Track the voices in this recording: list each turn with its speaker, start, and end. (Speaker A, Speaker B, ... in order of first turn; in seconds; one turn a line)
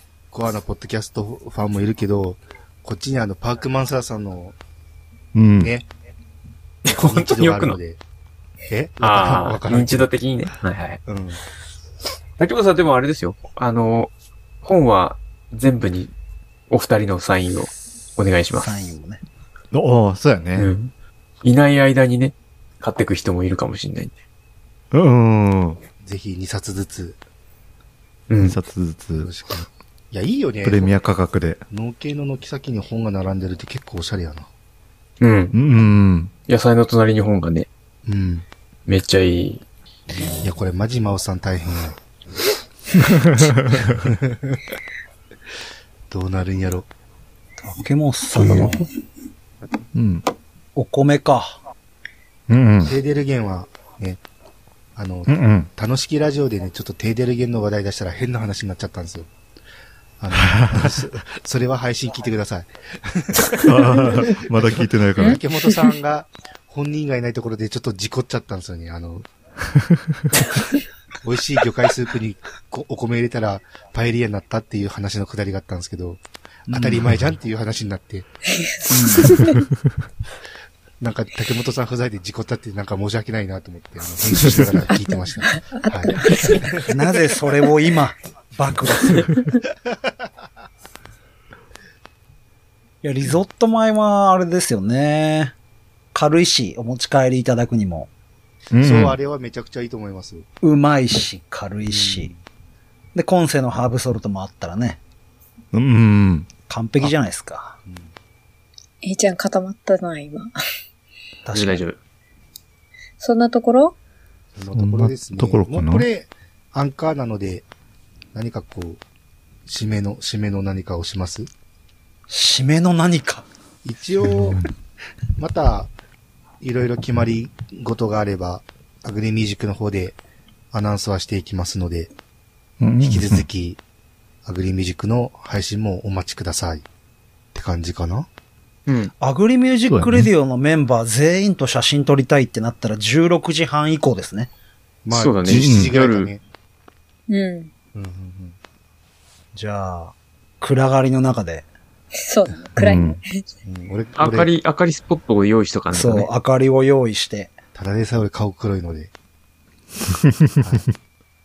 Speaker A: 0.3-4.5
Speaker B: 5.3-5.8
Speaker A: 5.6-5.9
Speaker C: 6.8-7.8
Speaker A: 6.9-8.0
Speaker A: 8.7-10.1
Speaker C: 9.0-11.0
Speaker A: 11.0-11.4
Speaker C: 12.4-14.1
Speaker C: 14.6-16.1
Speaker C: 16.7-18.9
Speaker D: 18.5-19.2
Speaker B: 19.7-20.7
Speaker C: 20.6-20.9
Speaker C: 21.4-24.1
Speaker B: 24.9-25.8
Speaker A: 26.0-27.2
Speaker C: 28.3-28.6
Speaker B: 28.4-29.3
Speaker A: 29.2-31.0
Speaker B: 30.6-31.6
Speaker A: 31.7-34.5
Speaker C: 35.2-35.5
Speaker B: 35.5-36.3
Speaker C: 36.5-37.7
Speaker A: 38.0-38.4
Speaker C: 38.9-39.6
Speaker A: 40.4-42.0
Speaker B: 42.9-43.8
Speaker A: 43.9-44.4
Speaker A: 46.1-46.9
Speaker D: 47.6-48.9
Speaker B: 49.9-50.2
Speaker D: 50.7-51.6
Speaker B: 52.5-52.9
Speaker A: 52.8-54.2
Speaker A: 54.9-59.3
Speaker B: 55.3-55.7
Speaker A: 60.2-69.3
Speaker B: 63.6-65.4
Speaker E: 65.2-65.8
Speaker A: 71.2-78.3
Speaker D: 76.7-77.0
Speaker E: 78.5-79.6
Speaker D: 78.9-79.3
Speaker A: 81.0-86.9
Speaker B: 84.5-84.7
Speaker E: 84.9-86.7
Speaker D: 86.9-89.3
Speaker D: 93.0-95.5
Speaker D: 96.1-98.1
Speaker B: 98.7-99.2
Speaker A: 98.8-100.5
Speaker D: 100.6-102.3
Speaker A: 101.9-102.3
Speaker D: 103.1-105.0
Speaker B: 105.7-107.1
Speaker D: 106.7-107.8
Speaker A: 107.8-108.1
Speaker E: 109.0-110.5
Speaker D: 111.4-111.8
Speaker C: 111.5-112.0
Speaker E: 113.2-113.9
Speaker A: 114.5-117.7
Speaker B: 114.6-116.1
Speaker A: 118.3-119.0
Speaker A: 119.7-121.5
Speaker D: 122.3-123.5
Speaker A: 123.8-124.6
Speaker B: 124.2-124.7
Speaker A: 125.4-125.9
Speaker A: 126.6-130.2
Speaker A: 130.7-132.1
Speaker B: 132.8-133.5
Speaker A: 133.0-133.8
Speaker A: 134.4-136.8
Speaker A: 137.5-138.3
Speaker C: 138.9-139.1
Speaker D: 139.2-144.5
Speaker B: 139.9-140.3
Speaker A: 145.0-146.4
Speaker C: 145.1-146.3
Speaker B: 145.4-145.9
Speaker E: 147.3-147.7
Speaker A: 147.9-148.6
Speaker D: 149.5-151.7
Speaker E: 152.2-153.4
Speaker B: 152.8-153.2
Speaker A: 153.6-154.5
Speaker C: 154.2-156.3
Speaker D: 155.9-157.6
Speaker A: 157.7-159.1